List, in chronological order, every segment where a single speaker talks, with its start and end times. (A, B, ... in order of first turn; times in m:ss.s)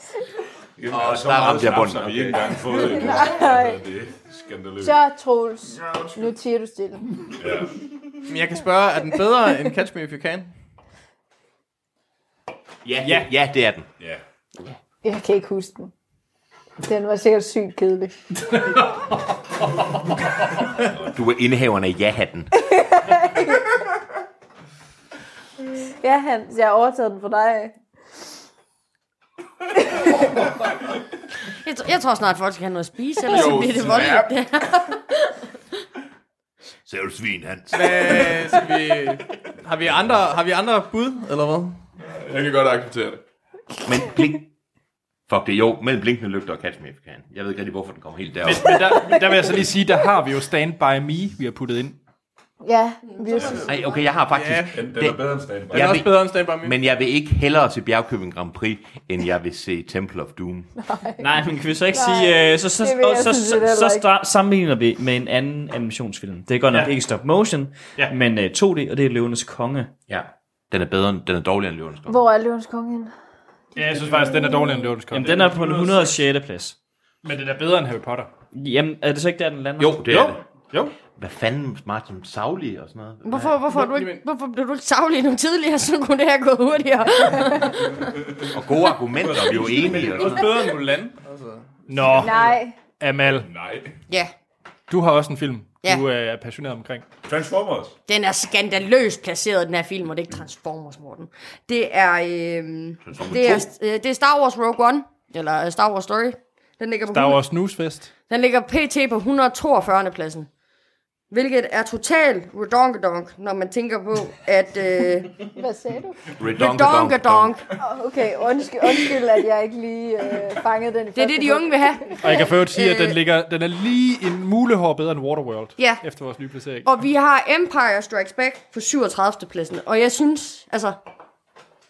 0:00.8-0:05.0 A
0:00.9-0:02.6 B
0:02.7-0:03.8 C
0:04.8-0:07.2 C
0:07.4-0:07.7 A
0:08.3-0:10.5 D
0:12.8-0:13.9 B
0:15.0-0:15.9 C
0:16.8-0:18.2 C
0:21.0-0:22.5 B
0:22.6-0:23.8 C
0:26.0-0:27.8 C
0:29.8-0:30.3 C
0:31.6-0:35.2 E
0:33.2-0:34.3 F
0:36.9-0:38.4 B
0:37.7-0:41.8 D
0:42.0-0:43.2 F
0:43.8-0:44.5 B
0:45.3-0:49.2 B
0:48.4-0:52.0 G
0:52.6-0:53.7 C
0:53.0-0:54.1 E
0:53.6-1:00.7 B
0:54.3-0:54.7 D
0:54.7-0:56.0 A
0:55.7-0:56.8 D
1:00.8-1:01.4 C
1:01.2-1:09.9 H
1:01.9-1:04.1 C
1:10.1-1:12.2 B
1:12.1-1:13.1 C
1:13.8-1:15.9 G
1:14.2-1:15.0 C
1:15.1-1:16.8 H
1:15.4-1:16.1 D
1:17.2-1:18.3 G
1:18.5-1:20.2 H
1:19.8-1:20.4 B
1:20.1-1:20.9 G
1:21.2-1:23.6 B
1:23.2-1:27.9 E
1:23.7-1:24.2 D
1:28.5-1:30.5 B
1:29.2-1:30.4 A
1:30.1-1:32.6 D
1:31.9-1:32.4 G
1:32.0-1:32.8 C
1:33.0-1:33.5 G
1:33.3-1:33.9 A
1:34.9-1:37.0 G
1:37.2-1:38.0 A
1:38.1-1:47.4 E
1:43.1-1:43.7 B
1:47.1-1:48.1 G
1:48.3-1:50.5 E
1:51.3-1:55.4 E
1:55.5-1:56.3 C
1:56.4-1:57.6 B
1:56.4-1:57.7 E
1:57.8-2:02.1 C
2:01.2-2:03.2 E
2:02.2-2:06.9 G
2:05.8-2:06.0 E
2:06.8-2:11.0 E